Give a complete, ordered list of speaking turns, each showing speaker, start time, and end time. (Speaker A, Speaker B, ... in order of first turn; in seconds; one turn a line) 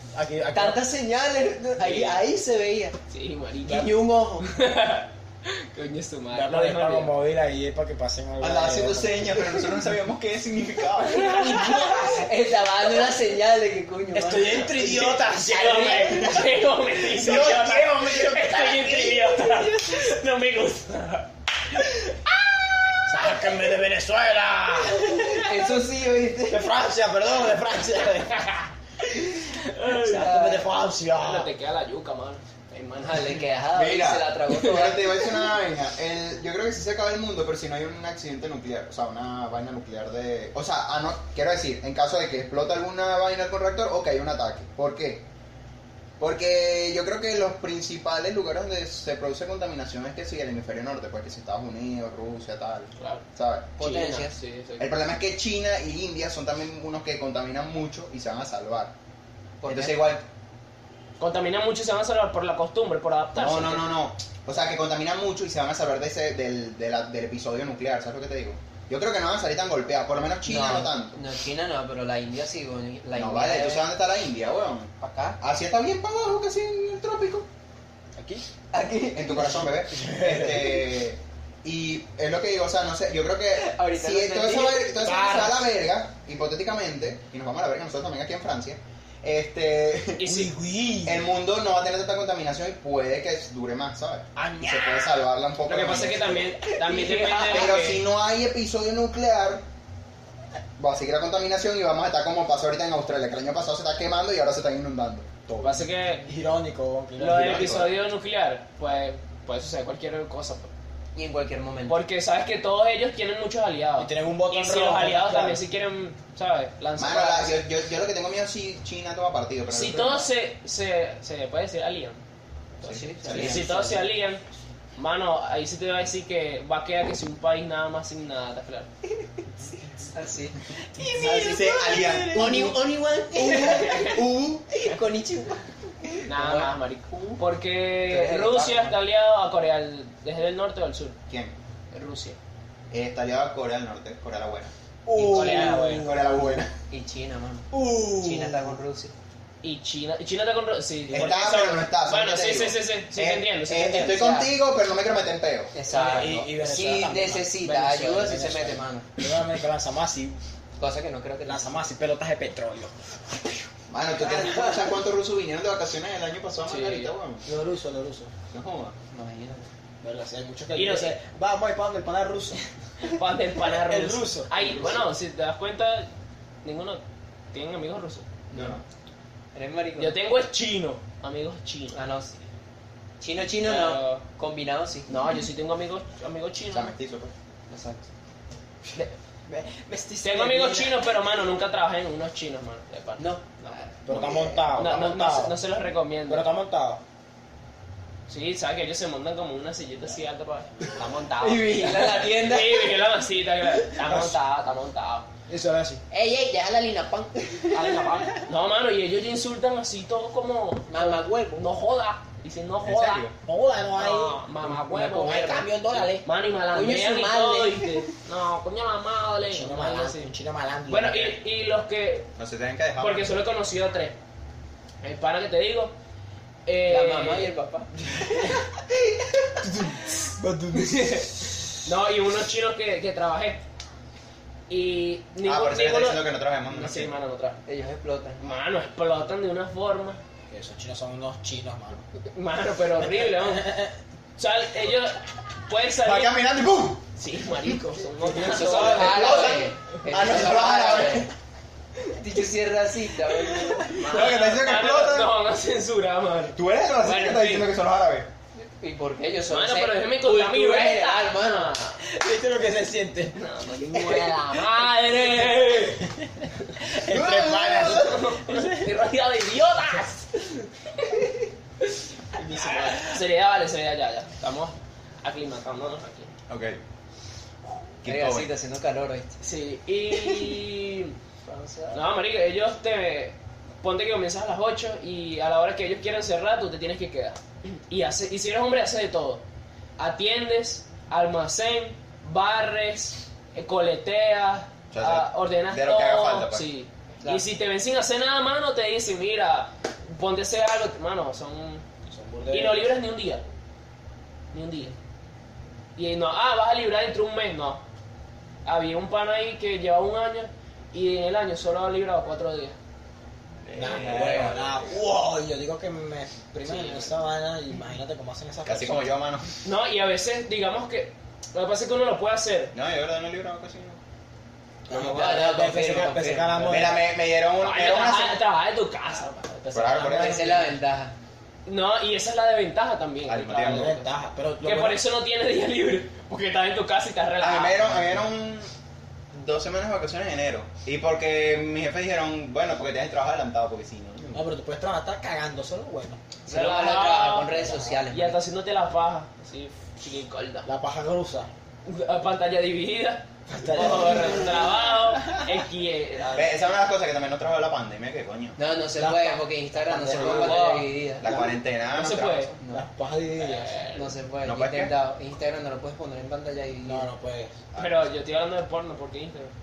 Speaker A: 0.1-0.8
Speaker B: 0.5-3.0
Speaker C: 1.8-2.2
Speaker C: 3.1-7.1
Speaker B: 3.6-4.5
Speaker A: 6.3-9.3
Speaker D: 8.4-12.0
Speaker C: 11.0-12.3
Speaker A: 11.2-12.2
Speaker B: 12.0-15.0
Speaker A: 14.1-16.5
Speaker C: 14.7-22.1
Speaker B: 15.5-16.4
Speaker A: 17.0-19.8
Speaker D: 17.2-17.9
Speaker A: 23.1-25.7
Speaker B: 25.1-26.6
Speaker A: 26.5-31.5
Speaker B: 29.9-30.7
Speaker C: 29.9-30.3
Speaker C: 31.2-33.4
Speaker B: 33.0-35.2
Speaker D: 33.7-45.2
Speaker D: 46.2-53.7
Speaker C: 53.0-53.2
Speaker B: 53.8-54.4
Speaker C: 53.8-54.9
Speaker D: 54.8-58.9
Speaker B: 59.6-60.0
Speaker D: 59.7-60.2
Speaker C: 61.2-63.9
Speaker D: 63.3-71.2
Speaker B: 70.5-73.8
Speaker D: 73.2-77.5
Speaker B: 75.0-75.4
Speaker A: 78.2-78.4
Speaker B: 78.7-79.7
Speaker D: 79.1-90.2
Speaker A: 79.9-80.8
Speaker B: 83.5-85.0
Speaker A: 85.0-85.7
Speaker C: 90.2-90.5
Speaker A: 90.2-91.3
Speaker D: 91.0-96.6
Speaker A: 94.3-95.2
Speaker C: 95.7-98.0
Speaker A: 96.9-97.8
Speaker B: 97.2-97.5
Speaker D: 97.5-99.6
Speaker D: 100.8-105.3
Speaker A: 105.5-107.9
Speaker C: 105.6-106.2
Speaker C: 107.2-110.7
Speaker D: 107.3-107.9
Speaker B: 111.1-112.0
Speaker C: 111.9-117.6
Speaker A: 114.0-115.6
Speaker D: 117.0-120.3
Speaker C: 119.7-122.2
Speaker D: 122.8-123.7
Speaker B: 122.8-123.9
Speaker C: 123.3-124.4
Speaker A: 123.4-124.0
Speaker C: 125.0-128.9
Speaker B: 130.1-137.4
Speaker A: 131.0-132.4
Speaker D: 131.2-132.8
Speaker D: 133.3-134.7
Speaker C: 133.5-134.2
Speaker C: 136.2-141.2
Speaker B: 138.0-138.9
Speaker D: 141.3-141.5
Speaker C: 141.9-142.4
Speaker D: 142.9-144.7
Speaker A: 145.1-146.5
Speaker B: 145.2-146.1
Speaker D: 145.3-146.7
Speaker C: 145.4-145.7
Speaker B: 146.9-149.1
Speaker A: 147.7-148.8
Speaker C: 149.6-154.1
Speaker D: 151.1-155.7
Speaker A: 151.1-151.4
Speaker B: 153.9-154.5
Speaker B: 155.7-159.1
Speaker A: 155.9-160.4
Speaker B: 160.8-161.7
Speaker A: 161.4-163.7
Speaker D: 163.9-167.4
Speaker B: 164.2-164.9
Speaker C: 166.7-167.1
Speaker A: 167.4-168.3
Speaker D: 168.5-168.9
Speaker B: 169.1-169.7
Speaker A: 170.0-175.0
Speaker C: 170.7-171.1
Speaker C: 173.1-176.1
Speaker C: 176.6-177.0
Speaker C: 177.5-178.3
Speaker B: 178.5-178.8
Speaker D: 178.5-178.8
Speaker B: 179.5-180.1
Speaker C: 180.0-182.0
Speaker B: 181.9-182.4
Speaker B: 183.2-185.1
Speaker C: 183.6-184.2
Speaker C: 185.1-186.9
Speaker D: 186.7-187.3
Speaker B: 187.7-188.1
Speaker B: 189.5-190.9
Speaker C: 190.2-193.8
Speaker B: 193.2-194.7
Speaker A: 194.1-195.6
Speaker C: 194.7-196.5
Speaker A: 196.3-197.0
Speaker C: 198.3-205.3
Speaker B: 201.4-203.0
Speaker A: 203.9-204.3
Speaker A: 205.5-206.0
Speaker B: 206.1-208.2
Speaker C: 207.7-213.3
Speaker B: 210.9-211.7
Speaker D: 212.8-213.3
Speaker A: 213.4-216.2
Speaker C: 214.0-215.7
Speaker B: 214.9-216.0
Speaker C: 216.2-220.3
Speaker B: 216.7-218.1
Speaker A: 219.5-221.4
Speaker C: 220.9-222.3
Speaker D: 222.4-223.3
Speaker C: 223.0-224.2
Speaker C: 225.0-225.9
Speaker C: 226.7-227.5
Speaker B: 226.9-229.6
Speaker A: 229.6-231.5
Speaker C: 230.7-233.6
Speaker C: 234.7-237.6
Speaker D: 235.4-237.1
Speaker B: 237.6-238.4
Speaker C: 238.4-240.2
Speaker A: 240.5-242.1
Speaker C: 242.3-246.4
Speaker A: 243.0-243.9
Speaker D: 246.0-247.0
Speaker C: 247.2-249.7
Speaker A: 248.2-249.6
Speaker B: 248.4-251.3
Speaker D: 248.8-251.3
Speaker B: 252.1-254.2
Speaker C: 253.9-257.7
Speaker D: 254.0-255.3
Speaker D: 256.6-258.3
Speaker B: 258.6-261.8
Speaker C: 259.5-262.0
Speaker A: 262.0-263.4
Speaker C: 263.3-266.0
Speaker A: 263.9-264.2
Speaker A: 265.6-268.9
Speaker D: 267.1-268.1
Speaker C: 267.8-271.2
Speaker C: 271.8-276.3
Speaker A: 272.4-273.2
Speaker D: 276.5-276.8
Speaker D: 278.0-278.5
Speaker B: 278.1-279.4
Speaker C: 279.4-281.1
Speaker B: 280.2-280.5
Speaker B: 281.4-282.0
Speaker C: 281.9-289.4
Speaker C: 290.0-301.8
Speaker D: 294.9-296.6
Speaker A: 302.1-302.9
Speaker C: 302.5-303.4
Speaker C: 304.5-304.9
Speaker C: 305.9-307.8
Speaker C: 308.6-312.8
Speaker D: 313.6-314.8
Speaker A: 313.7-319.1
Speaker C: 316.6-317.1
Speaker D: 318.6-319.4
Speaker C: 319.6-322.7
Speaker D: 322.7-324.0
Speaker A: 324.9-327.1
Speaker B: 324.9-326.9
Speaker D: 326.6-328.4
Speaker C: 327.6-330.7
Speaker D: 329.7-330.5
Speaker B: 330.0-331.1
Speaker C: 331.6-334.1
Speaker D: 333.3-334.0
Speaker A: 333.6-335.0
Speaker C: 334.6-338.2
Speaker D: 337.4-338.7
Speaker D: 339.3-344.4
Speaker A: 344.3-346.2
Speaker B: 346.4-348.4
Speaker C: 346.5-350.7
Speaker A: 347.6-348.0
Speaker A: 350.6-351.5
Speaker C: 351.8-356.6
Speaker A: 353.5-354.6
Speaker D: 356.3-358.6
Speaker B: 358.6-361.4
Speaker A: 358.9-360.7
Speaker C: 360.1-360.9
Speaker D: 361.2-362.6
Speaker A: 361.2-361.6
Speaker C: 361.9-362.5
Speaker A: 362.7-363.8
Speaker C: 363.4-364.1
Speaker B: 363.9-367.1
Speaker D: 364.4-364.9
Speaker A: 366.8-367.5
Speaker D: 367.7-368.1
Speaker C: 367.8-369.5